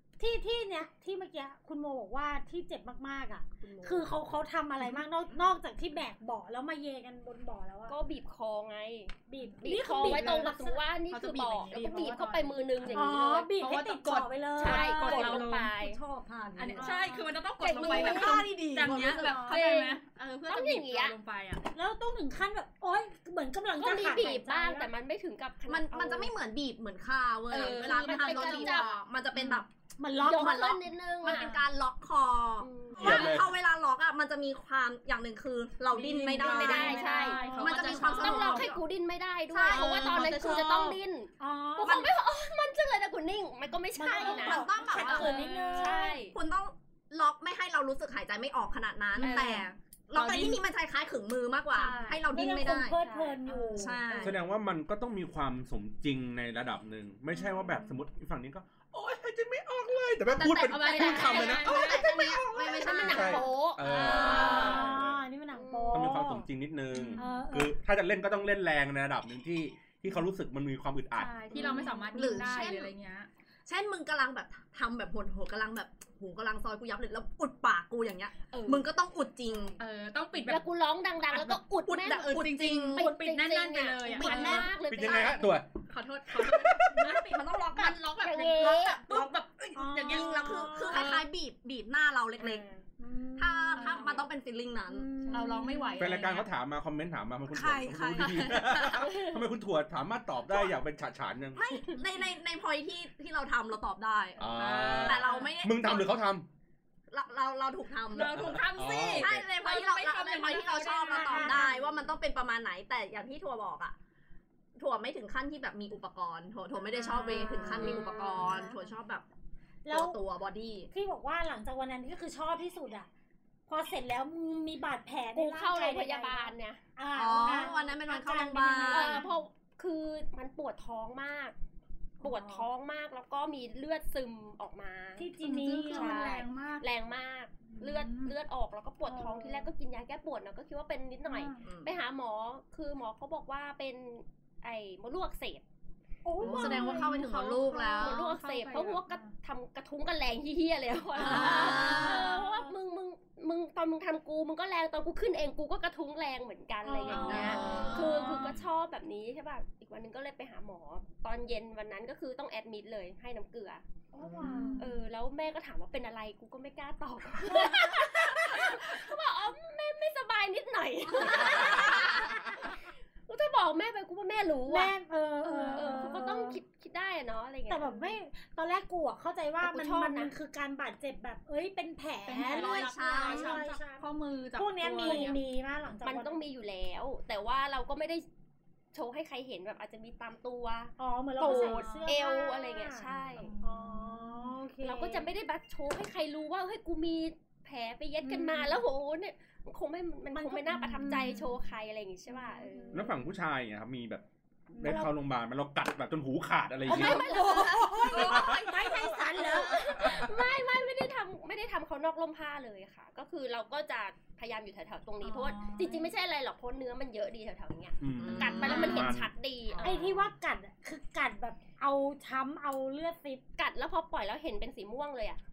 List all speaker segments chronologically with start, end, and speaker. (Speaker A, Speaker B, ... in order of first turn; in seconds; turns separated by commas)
Speaker A: 0.2-8.0, Speaker B: 3.6-4.1, Speaker C: 7.9-13.5, Speaker A: 9.3-10.8, Speaker D: 9.4-10.5, Speaker D: 11.1-15.7, Speaker A: 12.9-17.3, Speaker C: 14.6-16.0, Speaker B: 16.1-17.0, Speaker D: 16.6-21.6, Speaker C: 17.6-18.5, Speaker B: 17.8-19.6, Speaker A: 17.8-18.3, Speaker C: 19.3-21.1, Speaker A: 21.7-24.9, Speaker C: 23.8-26.3, Speaker B: 25.7-38.8, Speaker C: 27.5-29.0, Speaker D: 28.0-28.7, Speaker D: 29.3-29.6, Speaker A: 30.0-30.7, Speaker C: 30.2-31.6, Speaker D: 31.2-31.6, Speaker C: 32.6-33.4, Speaker E: 33.0-33.5, Speaker D: 35.9-38.8, Speaker C: 36.3-46.4, Speaker A: 37.3-37.6, Speaker B: 39.5-41.0, Speaker D: 39.7-40.7, Speaker A: 41.4-42.1, Speaker B: 41.8-42.1, Speaker A: 44.0-46.2, Speaker D: 44.1-45.7, Speaker B: 44.2-45.4, Speaker B: 46.3-53.0, Speaker D: 49.1-50.6, Speaker C: 49.2-49.6, Speaker D: 51.7-52.2, Speaker C: 51.8-52.2, Speaker A: 52.3-54.3, Speaker C: 52.9-53.5, Speaker D: 53.5-53.9, Speaker B: 53.7-54.4, Speaker E: 54.2-65.2, Speaker B: 60.3-64.8, Speaker D: 60.4-64.9, Speaker C: 60.8-64.7, Speaker A: 64.2-66.5, Speaker C: 65.5-66.2, Speaker E: 65.9-71.4, Speaker D: 66.9-67.3, Speaker A: 67.2-67.7, Speaker D: 71.1-73.3, Speaker B: 71.5-72.9, Speaker C: 71.5-71.9, Speaker A: 71.5-72.1, Speaker B: 73.7-79.8, Speaker D: 79.8-80.7, Speaker C: 80.4-82.4, Speaker D: 81.3-84.8, Speaker B: 81.8-83.1, Speaker C: 82.9-85.6, Speaker B: 84.1-84.7, Speaker E: 84.8-85.7, Speaker D: 85.9-91.2, Speaker B: 86.3-88.1, Speaker C: 88.2-89.3, Speaker A: 89.7-91.1, Speaker B: 90.0-92.6, Speaker C: 92.4-92.8, Speaker A: 93.0-94.0, Speaker B: 93.4-95.1, Speaker D: 93.7-94.2, Speaker A: 94.9-96.2, Speaker C: 95.3-95.6, Speaker D: 95.3-96.5, Speaker E: 96.0-101.6, Speaker B: 97.5-99.0, Speaker C: 99.0-99.4, Speaker B: 101.5-106.2, Speaker E: 104.4-106.5, Speaker D: 104.5-105.5, Speaker B: 107.1-113.9, Speaker D: 108.1-111.8, Speaker E: 108.3-109.4, Speaker A: 110.8-111.7, Speaker B: 114.8-119.2, Speaker D: 116.9-118.6, Speaker A: 117.1-118.8, Speaker C: 117.8-118.2, Speaker A: 119.8-120.2, Speaker B: 119.9-120.9, Speaker A: 120.9-123.1, Speaker A: 123.7-129.3, Speaker C: 125.3-126.8, Speaker B: 127.1-129.2, Speaker C: 128.9-131.5, Speaker D: 129.1-129.4, Speaker C: 132.2-135.3, Speaker D: 132.2-132.6, Speaker A: 132.2-132.6, Speaker A: 135.2-136.3, Speaker D: 135.4-136.9, Speaker C: 135.8-145.6, Speaker D: 137.7-138.3, Speaker A: 139.0-139.7, Speaker D: 141.3-141.6, Speaker B: 141.6-141.9, Speaker A: 146.2-147.2, Speaker B: 146.4-148.2, Speaker D: 146.4-149.3, Speaker C: 147.9-163.8, Speaker D: 151.2-152.4, Speaker B: 151.2-152.3, Speaker A: 151.8-152.7, Speaker A: 156.8-157.6, Speaker D: 157.1-158.6, Speaker B: 157.2-158.3, Speaker A: 164.1-164.8, Speaker B: 164.2-164.7, Speaker D: 164.4-164.9, Speaker C: 164.8-178.2, Speaker B: 171.6-172.1, Speaker A: 174.7-176.6, Speaker D: 175.6-176.2, Speaker A: 177.7-184.0, Speaker C: 179.6-180.3, Speaker D: 182.2-185.4, Speaker B: 182.4-183.7, Speaker A: 184.6-186.4, Speaker C: 185.0-185.3, Speaker C: 186.0-188.2, Speaker C: 188.9-193.5, Speaker A: 191.0-195.3, Speaker D: 191.4-192.2, Speaker D: 193.3-194.6, Speaker C: 194.8-203.1, Speaker A: 198.2-198.8, Speaker A: 200.3-201.4, Speaker D: 200.7-201.5, Speaker A: 202.3-203.3, Speaker E: 202.9-204.2, Speaker A: 204.8-205.1, Speaker E: 204.8-207.3, Speaker C: 206.9-208.6, Speaker D: 206.9-208.7, Speaker A: 207.1-210.2, Speaker B: 207.3-208.2, Speaker E: 208.1-208.6, Speaker C: 209.3-220.2, Speaker D: 215.2-216.1, Speaker E: 218.0-219.3, Speaker B: 218.2-219.1, Speaker D: 218.7-219.0, Speaker A: 219.8-223.4, Speaker C: 223.6-225.4